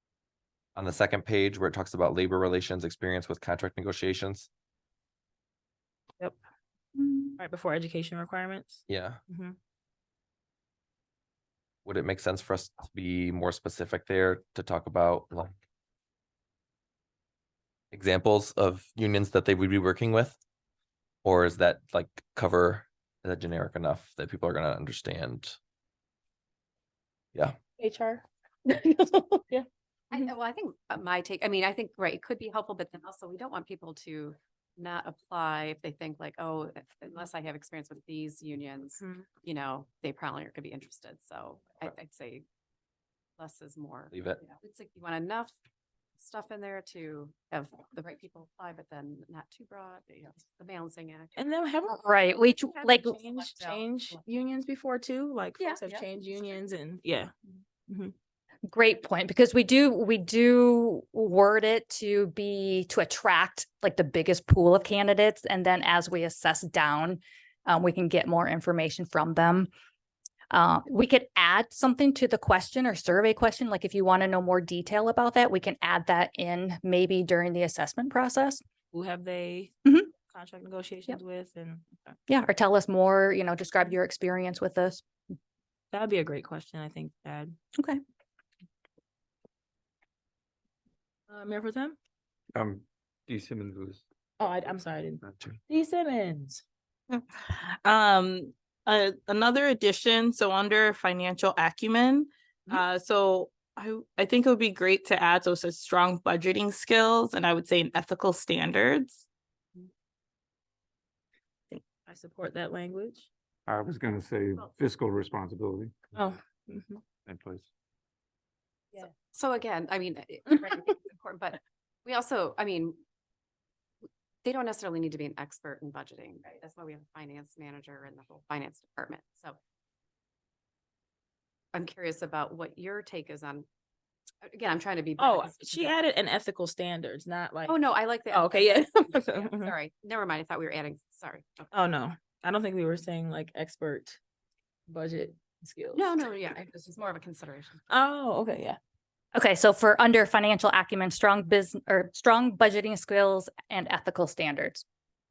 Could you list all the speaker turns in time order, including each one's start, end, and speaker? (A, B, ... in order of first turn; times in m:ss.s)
0:00.7-0:04.5 A
0:07.0-0:07.4 B
0:07.4-0:09.6 C
0:08.9-0:09.2 A
0:11.8-0:15.6 A
0:17.9-0:20.4 A
0:21.2-0:25.6 A
0:27.8-0:29.6 C
0:30.1-0:42.4 D
0:39.0-0:39.2 C
0:43.4-0:45.5 D
0:44.1-0:44.4 A
0:46.2-0:51.3 D
0:51.3-0:52.1 C
0:51.9-0:53.2 B
0:52.6-0:57.3 C
0:53.4-0:53.8 D
0:55.6-0:56.0 D
0:57.9-0:58.1 C
0:58.7-1:09.7 B
1:10.5-1:18.6 B
1:18.9-1:19.7 C
1:19.8-1:20.1 B
1:20.3-1:22.2 C
1:22.3-1:25.0 B
1:25.9-1:27.6 C
1:31.3-1:32.0 C
1:32.5-1:34.0 E
1:34.4-1:36.6 C
1:37.1-1:49.3 F
1:51.7-1:53.3 C
1:53.7-1:55.9 E
1:56.1-1:57.0 C
1:57.2-1:57.7 E
1:58.9-2:03.0 D
2:04.4-2:09.6 D
2:11.7-2:13.6 D
2:14.4-2:15.9 D
2:15.2-2:19.7 C
2:17.7-2:21.7 D
2:21.7-2:24.2 C
2:24.9-2:26.2 C
2:25.9-2:27.8 D
2:27.9-2:28.8 C
2:29.3-2:34.8 B